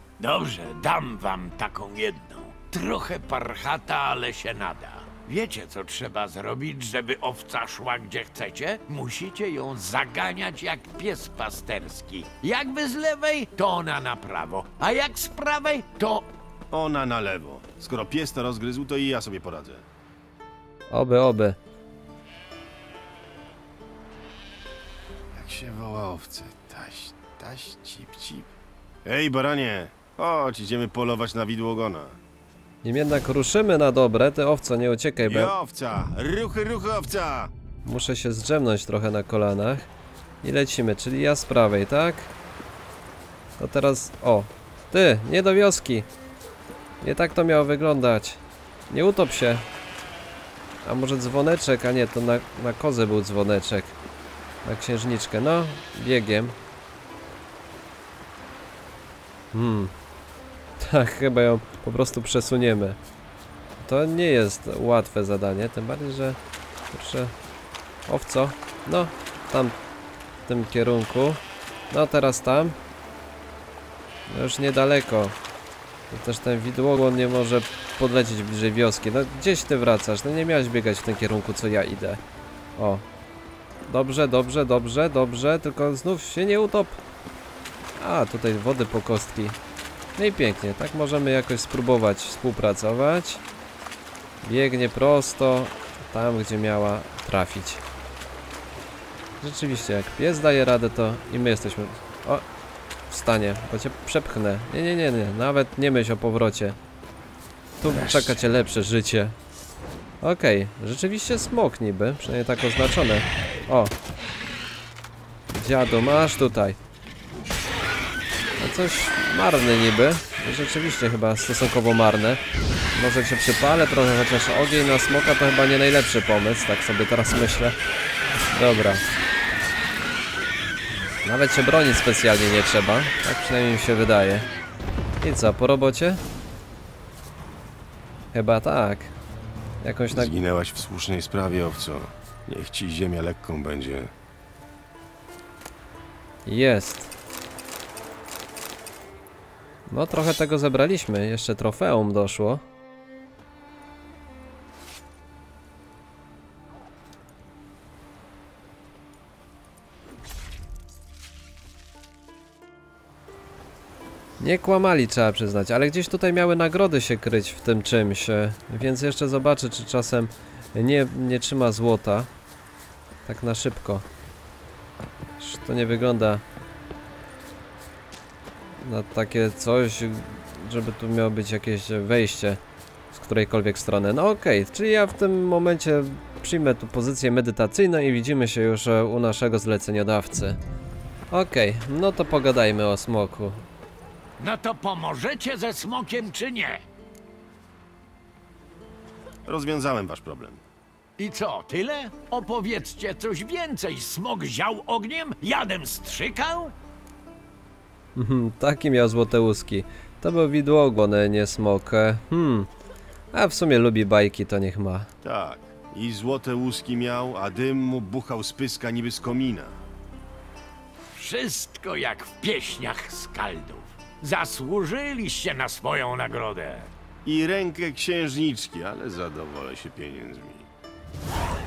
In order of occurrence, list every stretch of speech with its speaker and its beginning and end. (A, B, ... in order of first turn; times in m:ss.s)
0:00.2-0:16.3 A
0:16.7-0:19.8 B
0:20.9-0:21.6 C
0:25.3-0:28.5 B
0:29.0-0:32.2 B
0:32.8-0:35.5 C
0:35.3-0:37.5 B
0:37.8-0:39.9 C
0:40.4-0:42.3 C
0:43.6-0:46.1 C
0:47.0-0:49.6 C
0:50.8-0:53.9 C
0:54.6-0:56.6 C
0:59.5-0:59.9 C
1:00.8-1:03.0 C
1:03.8-1:06.4 C
1:06.9-1:07.3 C
1:08.1-1:09.8 C
1:10.4-1:12.8 C
1:14.3-1:15.4 C
1:16.1-1:22.2 C
1:22.8-1:23.0 C
1:23.9-1:27.0 C
1:28.0-1:29.6 C
1:30.2-1:33.4 C
1:34.4-1:37.8 C
1:39.4-1:42.4 C
1:43.1-1:46.8 C
1:47.8-1:49.4 C
1:50.2-1:53.9 C
1:55.5-1:56.8 C
1:58.6-2:02.4 C
2:02.9-2:07.8 C
2:08.5-2:09.0 C
2:11.2-2:14.5 C
2:15.2-2:16.2 C
2:18.3-2:19.1 C
2:19.8-2:20.3 C
2:20.1-2:24.1 B
2:26.4-2:27.1 C
2:29.9-2:32.6 C
2:44.4-2:52.3 C
2:53.2-2:54.0 C
2:55.4-2:56.4 C
2:58.8-3:02.6 C
3:03.1-3:10.6 C
3:11.3-3:13.6 C
3:14.4-3:16.8 A
3:19.4-3:20.6 B
3:21.2-3:26.7 A
3:28.2-3:32.7 C
3:33.3-3:35.1 C
3:35.2-3:39.8 B
3:41.1-3:46.9 A
3:47.2-3:50.7 B